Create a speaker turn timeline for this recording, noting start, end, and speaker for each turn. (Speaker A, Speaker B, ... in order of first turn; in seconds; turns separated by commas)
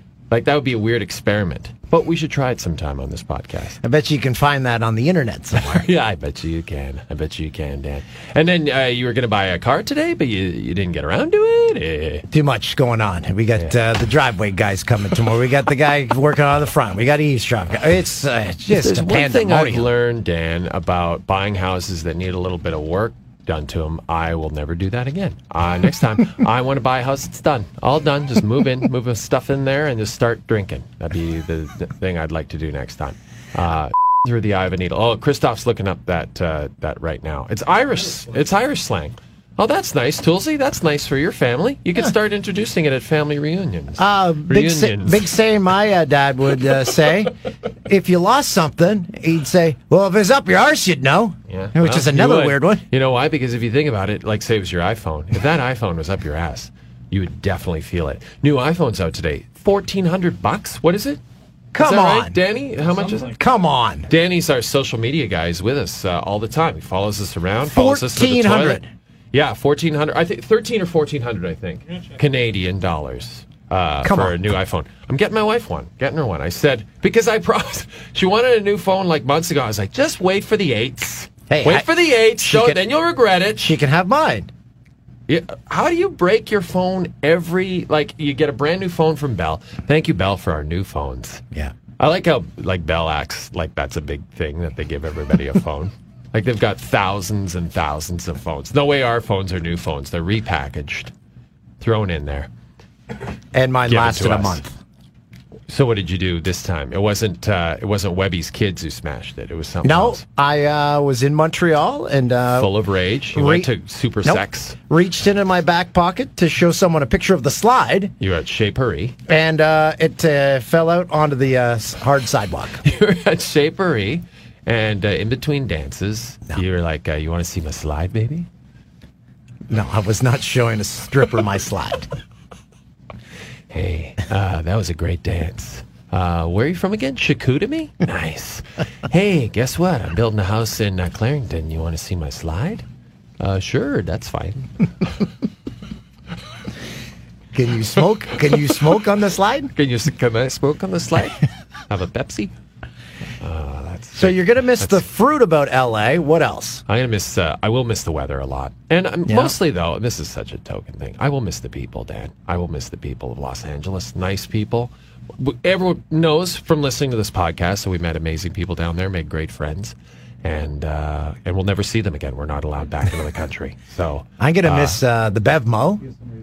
Speaker A: 0.3-3.8, Speaker B: 3.8-5.9, Speaker A: 5.7-12.3, Speaker B: 12.3-19.9, Speaker A: 18.7-45.3, Speaker B: 44.0-47.3, Speaker B: 47.9-52.9, Speaker A: 51.5-61.2, Speaker B: 61.7-62.4, Speaker A: 61.8-63.4, Speaker B: 63.2-64.1, Speaker A: 64.1-68.8, Speaker B: 67.6-68.9, Speaker A: 69.3-83.8, Speaker B: 74.0-74.4, Speaker B: 81.5-82.8, Speaker B: 83.6-84.5, Speaker A: 85.3-91.5, Speaker A: 92.0-101.1, Speaker A: 101.8-102.5, Speaker B: 103.5-104.8, Speaker A: 103.9-104.6, Speaker A: 105.7-110.2, Speaker B: 109.8-112.7, Speaker A: 112.5-114.8, Speaker B: 113.3-113.7, Speaker B: 114.2-118.1, Speaker A: 118.2-119.2, Speaker B: 119.3-122.8, Speaker A: 122.8-128.5, Speaker B: 129.7-132.1, Speaker A: 133.7-142.8, Speaker A: 143.4-144.7, Speaker B: 147.5-149.7, Speaker A: 149.8-152.5, Speaker A: 153.4-155.1, Speaker B: 154.2-156.8, Speaker A: 156.9-175.0, Speaker B: 159.3-159.5, Speaker B: 174.4-176.1